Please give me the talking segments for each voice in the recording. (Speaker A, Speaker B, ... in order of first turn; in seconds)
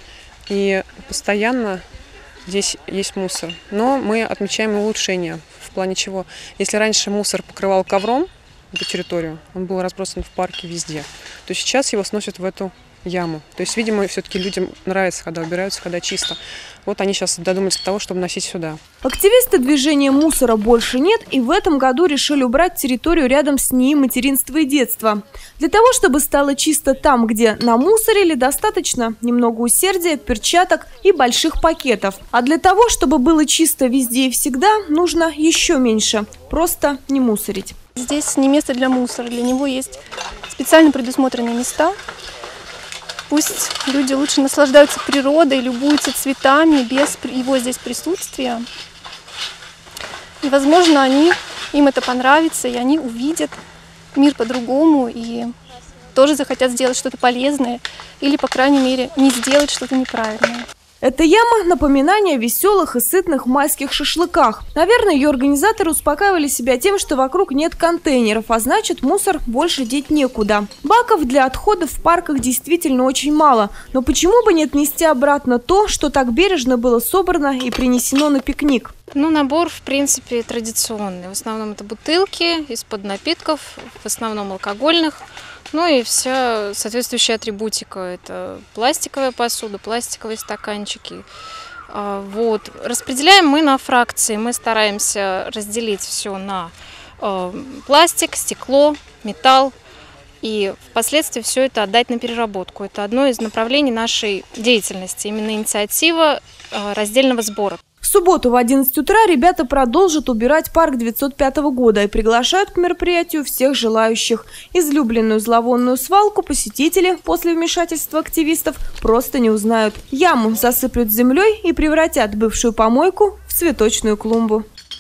Speaker A: 0.5-1.8, 2.5-18.8
Speaker B: 19.0-37.7, 61.0-78.9, 108.0-124.6
Speaker C: 38.0-41.9, 43.3-48.6, 50.4-53.6, 54.1-55.5, 56.1-60.6
Speaker D: 79.1-91.2, 91.9-99.7, 100.4-107.8